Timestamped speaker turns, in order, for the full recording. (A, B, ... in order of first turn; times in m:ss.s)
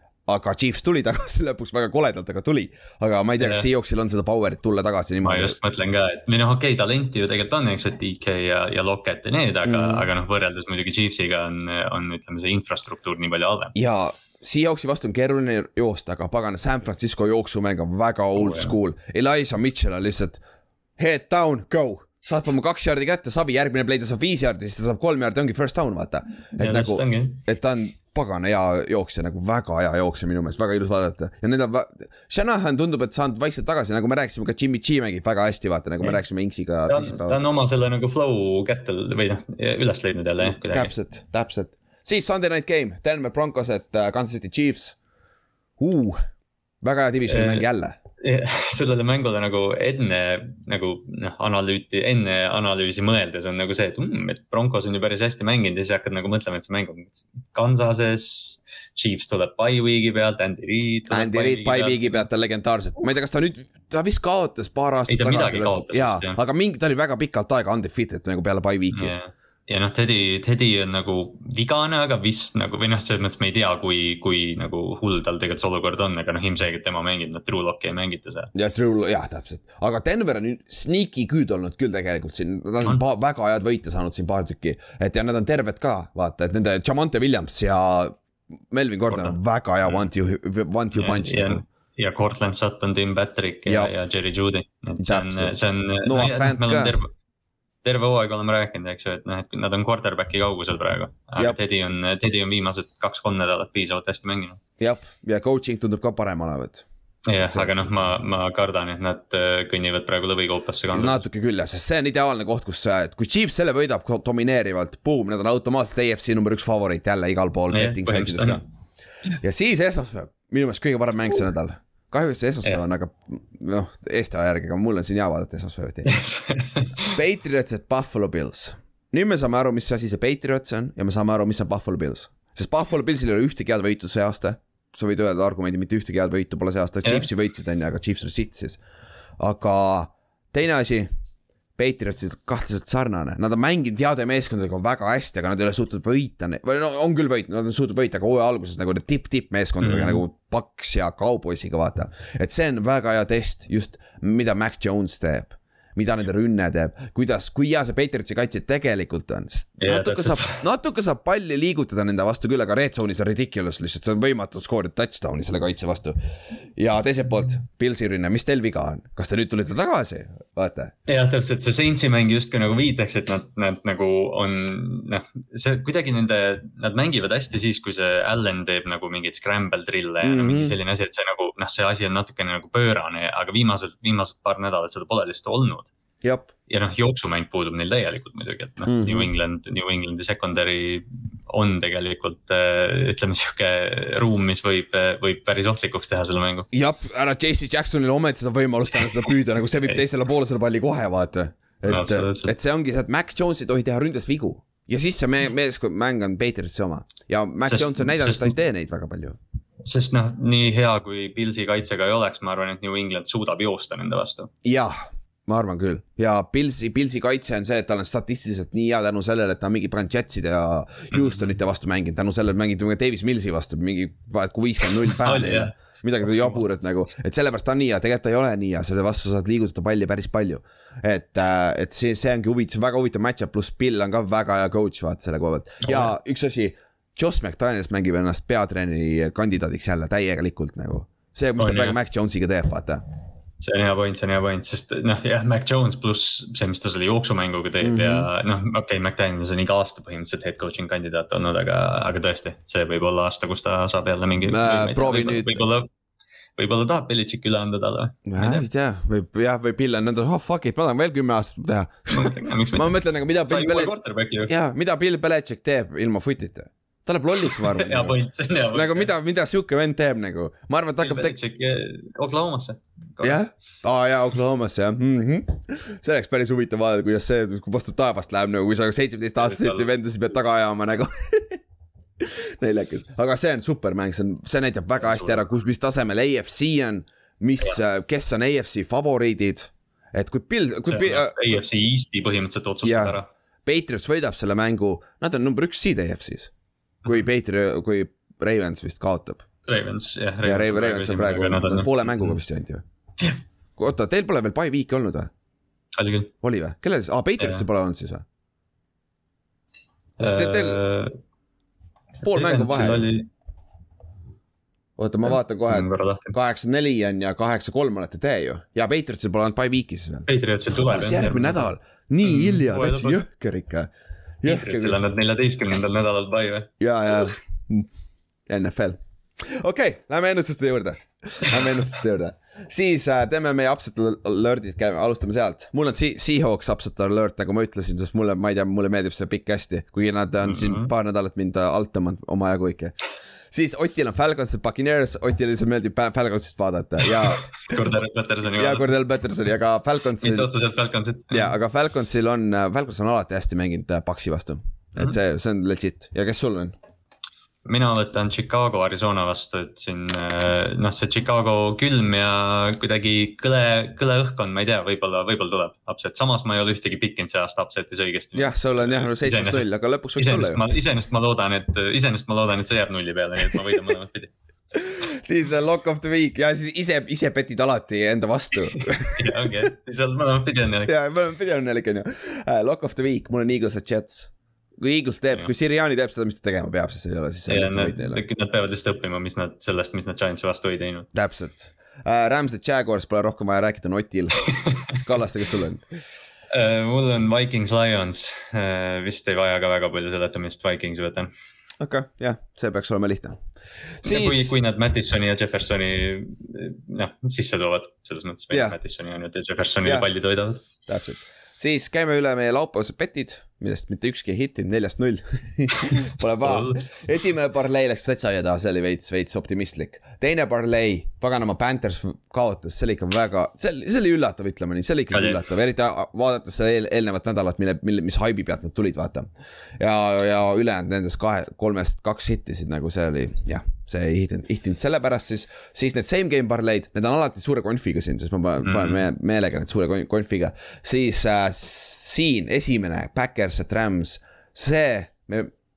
0:00.3-0:05.6 A
0:03.4-0:03.7 B
0:05.2-0:13.7 B
0:09.6-0:10.1 A
0:13.7-0:20.4 A
0:18.4-0:18.7 B
0:21.0-0:37.4 A
0:26.6-0:27.4 B
0:36.9-0:40.9 B
0:40.4-0:45.0 A
0:45.8-0:46.2 A
0:46.8-0:48.0 A
0:47.3-0:47.6 B
0:48.2-1:02.2 B
1:01.1-1:09.1 A
1:05.1-1:06.4 B
1:08.9-1:18.5 B
1:18.5-1:28.2 A
1:28.7-1:31.6 A
1:29.1-1:29.4 B
1:31.0-1:37.1 B
1:33.6-1:33.9 A
1:35.0-1:36.9 A
1:37.8-1:44.6 B
1:44.8-1:46.8 A
1:47.3-1:51.2 B
1:47.4-1:48.1 A
1:50.9-1:58.6 A
1:57.7-1:58.6 B
1:59.4-2:06.2 A
2:06.0-2:07.2 B
2:07.1-2:18.8 A
2:19.4-2:21.1 A
2:21.8-2:46.2 A
2:29.8-2:30.2 B
2:39.8-2:40.6 B
2:46.8-2:50.9 A
2:51.1-3:05.9 B
3:00.2-3:00.8 A
3:06.2-3:06.5 A
3:06.7-3:16.7 B
3:08.8-3:09.3 A
3:16.7-3:29.4 A
3:21.8-3:22.5 B
3:27.6-3:28.5 B
3:29.8-3:34.5 B
3:34.6-4:03.0 A
3:41.1-3:41.4 B
3:45.1-3:45.7 B
3:46.3-3:46.6 B
3:55.8-3:56.1 B
4:01.6-4:02.0 B
4:03.6-4:15.9 B
4:07.8-4:08.3 A
4:14.5-4:15.6 A
4:16.6-4:18.6 B
4:18.3-4:23.9 A
4:22.1-4:22.9 B
4:23.4-4:24.5 B
4:24.5-4:28.2 A
4:27.5-4:29.1 B
4:28.7-4:31.4 A
4:31.0-4:33.4 B
4:33.2-4:41.6 A
4:39.4-4:39.9 B
4:42.2-4:51.6 A
4:45.0-4:45.4 B
4:50.8-4:53.3 B
4:52.8-4:56.5 A
4:57.0-4:59.4 A
4:59.7-5:02.4 B
5:00.4-5:02.8 A
5:03.8-5:05.3 A
5:06.0-5:06.3 B
5:06.4-5:08.2 A
5:07.4-5:07.6 B
5:10.2-5:11.1 B
5:10.2-5:10.8 A
5:12.2-5:13.1 A
5:12.2-5:13.3 B
5:15.0-5:23.9 A
5:15.7-5:16.3 B
5:20.3-5:21.7 B
5:22.2-5:23.2 B
5:24.4-5:25.0 A
5:24.4-5:26.7 B
5:26.8-5:27.9 A
5:28.5-5:42.9 A
5:40.4-5:40.9 B
5:43.5-5:47.8 A
5:47.0-5:49.0 B
5:48.5-5:50.5 A
5:50.2-5:51.5 B
5:51.3-5:56.8 A
5:57.6-6:14.3 B
6:08.3-6:10.6 A
6:14.7-6:19.2 A
6:18.7-6:21.0 B
6:20.9-6:28.2 A
6:27.5-6:31.1 B
6:31.1-6:35.8 A
6:36.5-6:41.3 B
6:41.8-6:43.4 A
6:44.0-6:44.6 A
6:44.0-6:50.6 B
6:48.5-6:48.8 A
6:50.9-7:25.5 A
6:56.4-6:56.8 B
7:05.1-7:05.4 B
7:18.6-7:19.0 B